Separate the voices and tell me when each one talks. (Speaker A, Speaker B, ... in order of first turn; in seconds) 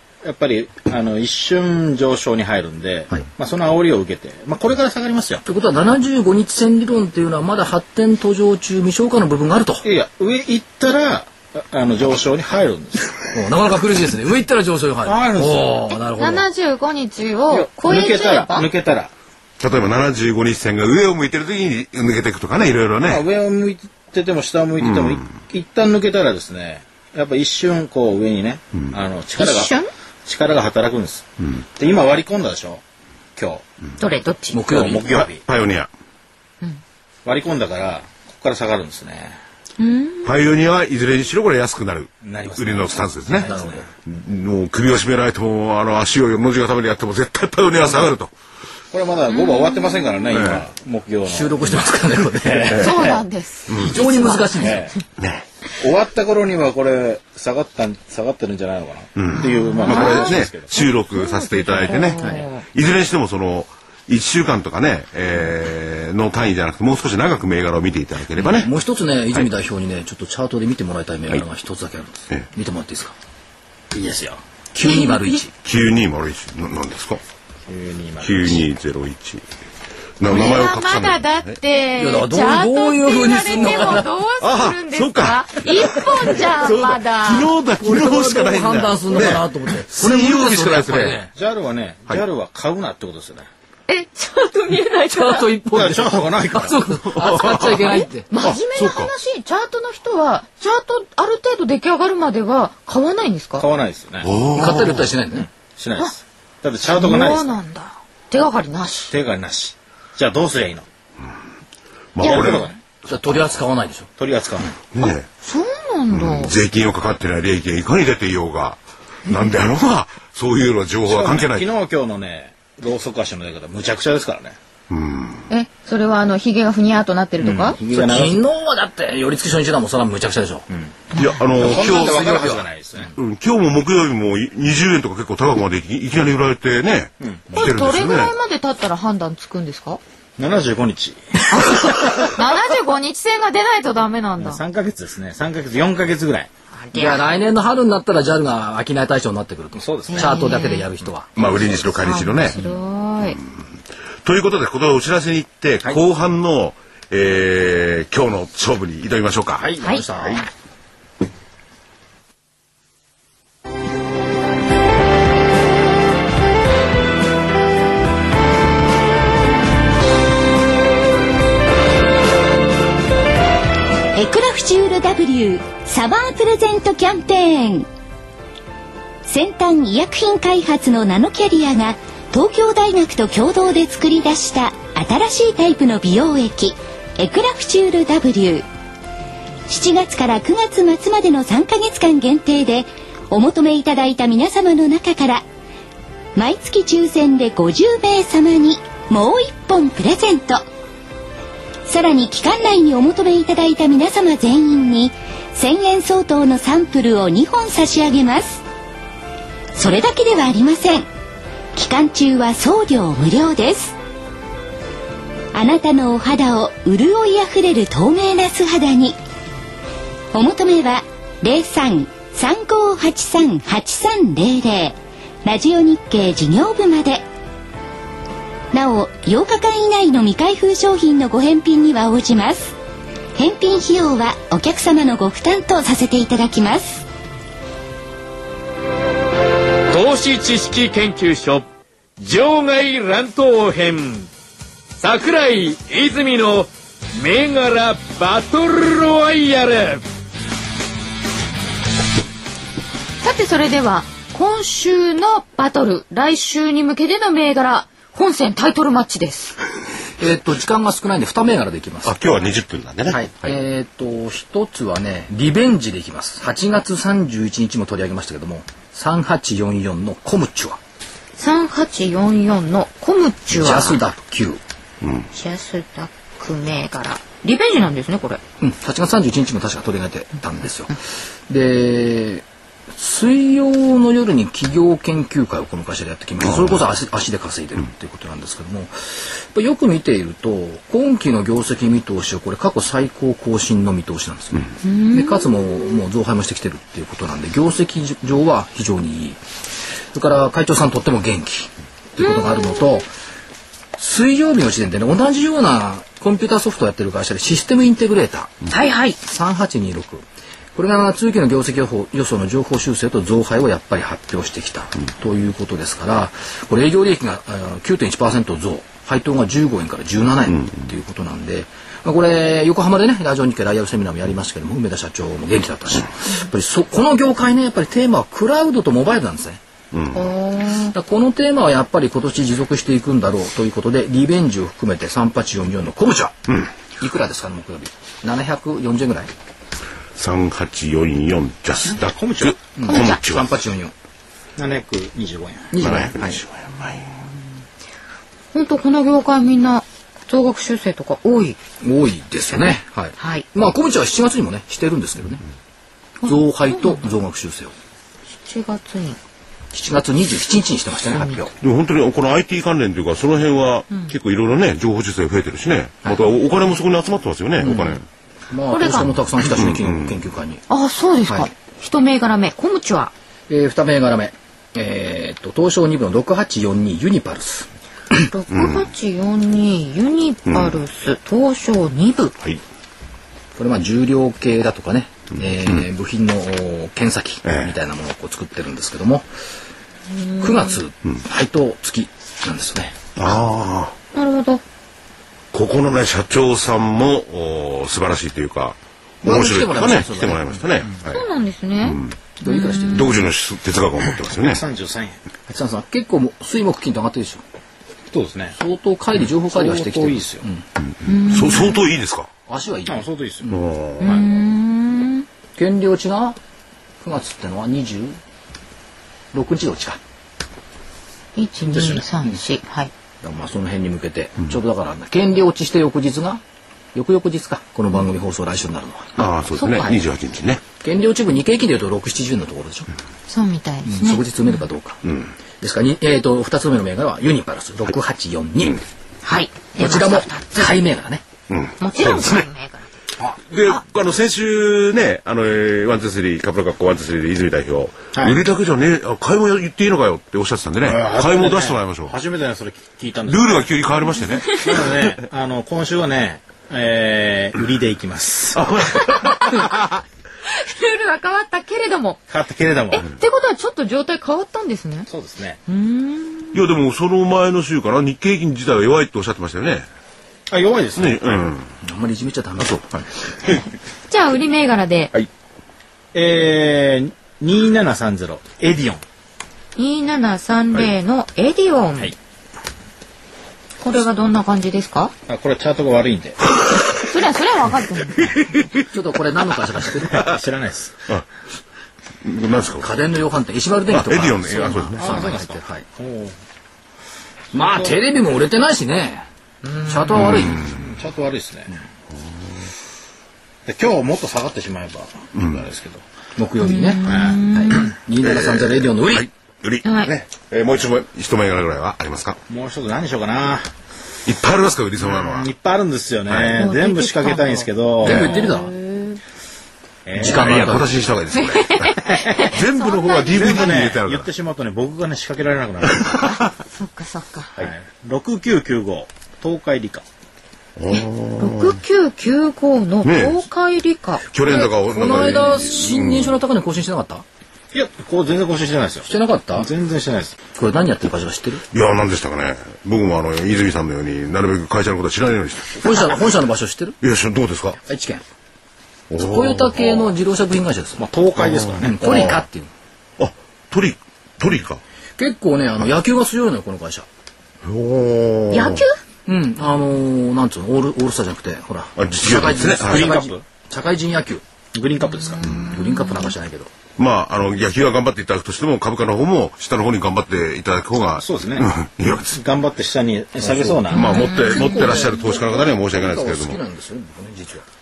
Speaker A: 0.2-5.4, 9.8-13.4, 15.1-15.8, 17.5-19.1, 23.0-32.8, 33.4-33.6, 34.7-35.4, 37.2-39.4, 42.2-43.8, 48.9-53.2, 54.6-55.0, 55.8-60.7, 73.9-74.4, 77.7-78.7, 91.3-93.5, 95.7-96.8, 103.6-104.3, 105.4-107.5, 109.1-110.9, 112.2-112.8, 114.2-114.7, 121.1-124.6, 127.4-128.4, 130.7-131.0, 131.6-133.1, 137.2-137.7, 140.4-141.2, 144.4-146.5, 149.7-150.4, 341.9-342.6, 344.6-345.7, 404.4-405.2, 408.1-408.6, 409.5-410.4, 412.9-413.5, 421.7-422.1, 448.1-448.4, 450.9-453.8, 454.6-458.6, 462.3-463.0, 465.1-465.6, 470.5-471.4, 476.1-479.0, 485.3-486.4, 490.0-490.9, 495.0-496.4, 497.6-498.0, 501.0-501.8, 503.7-506.0, 507.1-507.4, 512.5-513.7, 515.0-518.1, 520.0-520.7, 523.3-526.0, 527.6-530.0, 537.7-540.4, 551.0-552.0, 562.8-563.4, 564.7-565.5, 571.2-571.7, 572.3-574.0
Speaker B: 5.5-9.8, 13.3-16.5, 34.5-35.0, 43.3-43.9, 51.2-53.1, 53.8-54.8, 62.2-62.5, 68.5-73.1, 74.7-75.5, 82.0-84.1, 87.8-91.3, 95.1-98.3, 104.6-105.5, 113.1-114.1, 127.9-130.7, 131.6-132.7, 146.9-151.7, 159.6-160.5, 260.2-262.2, 263.1-270.8, 273.5-274.6, 278.6-281.0, 281.5-299.4, 300.1-303.1, 304.0-308.6, 309.2-329.6, 330.9-339.3, 342.8-343.9, 345.7-346.4, 351.8-355.4, 356.2-357.7, 359.7-361.5, 367.6-370.6, 373.5-377.7, 383.6-389.3, 390.4-393.0, 399.2-400.6, 402.4-403.2, 405.5-407.4, 408.6-410.7, 412.5-413.6, 415.6-416.4, 417.0-418.2, 419.3-420.0, 423.2-426.4, 426.9-429.1, 430.8-432.9, 433.9-438.8, 439.8-441.2, 471.8-472.9, 488.9-490.2, 492.8-495.9, 497.5-499.3, 499.8-500.6, 506.4-509.3, 518.0-518.7, 520.1-521.0, 534.5-537.2, 539.0-539.7, 540.5-541.6, 545.7-547.0, 547.8-548.2, 549.2-551.0, 551.8-552.7, 555.2-557.1, 559.3-564.4, 565.5-566.7, 573.4-577.7
Speaker C: 16.1-18.7, 29.4-29.9, 34.0-34.6, 39.8-40.4, 49.3-50.2, 52.8-55.0, 59.4-62.7, 74.8-75.1, 80.2-87.5, 93.9-95.5, 97.8-103.7, 106.9-109.1, 112.2-112.6, 115.0-116.5, 125.5-127.8, 137.6-140.0, 141.5-144.6, 146.7-147.3, 150.1-150.9, 152.0-153.4, 159.8-160.1, 253.2-259.6, 271.4-274.0, 275.3-278.4, 294.8-295.8, 302.2-303.1, 308.7-309.2, 330.1-330.9, 342.9-343.2, 348.5-351.6, 353.2-353.5, 356.2-357.1, 358.4-359.2, 361.1-361.4, 368.7-369.1, 370.7-373.1, 378.2-382.4, 390.1-390.8, 394.1-394.6, 401.1-403.1, 411.1-411.8, 414.0-415.3, 421.4-422.9, 429.5-430.0, 433.3-434.3, 439.2-440.8, 441.8-442.9, 458.9-459.7, 460.4-462.2, 462.9-465.1, 465.7-466.6, 474.1-475.1, 479.8-482.1, 483.8-485.1, 486.9-488.4, 506.6-507.9, 509.8-510.1, 516.6-519.2, 521.4-523.8, 526.1-527.6, 530.9-534.2, 558.5-559.0, 565.3-566.3, 573.9-575.0
Speaker D: 19.6-23.3, 24.8-25.3, 35.0-35.9, 40.2-48.3, 50.3-50.7, 52.7-53.0, 55.2-55.5, 59.1-68.7, 75.6-77.2, 78.2-79.4, 80.2-81.6, 84.4-91.3, 97.2-99.1, 104.2-105.1, 112.2-112.7, 114.9-115.3, 116.1-121.7, 124.9-125.5, 131.2-132.4, 133.1-138.3, 151.3-152.6, 154.2-160.5, 262.1-263.6, 329.9-330.3, 340.2-343.5, 345.8-347.3, 361.6-368.0, 369.5-370.1, 378.5-378.9, 380.5-380.8, 385.4-385.8, 387.5-387.7, 393.2-393.9, 395.5-401.2, 401.8-402.2, 402.9-404.6, 410.9-412.3, 413.5-414.2, 429.2-430.6, 441.5-442.5, 443.4-452.2, 453.2-455.2, 458.5-460.0, 466.5-469.9, 471.0-471.7, 472.6-473.7, 492.2-492.9, 493.9-495.5, 500.1-500.8, 505.3-505.7, 508.2-512.4, 514.3-515.5, 516.3-516.6, 518.0-518.4, 520.2-524.3, 525.8-526.4, 530.8-531.8, 533.0-533.5, 534.3-536.4, 541.7-546.0, 547.0-547.8, 549.1-550.1, 551.4-552.4, 553.2-554.8, 557.7-558.9, 562.0-563.2, 567.0-572.4, 573.9-576.6
Speaker E: 174.1-177.9, 179.3-188.7, 189.7-195.4, 196.3-200.6, 201.9-208.6, 209.8-211.1, 211.7-214.0, 215.5-219.2, 220.3-227.3, 228.7-232.8, 233.4-237.0
Speaker F: 239.9-241.7, 242.2-244.3, 245.0-250.0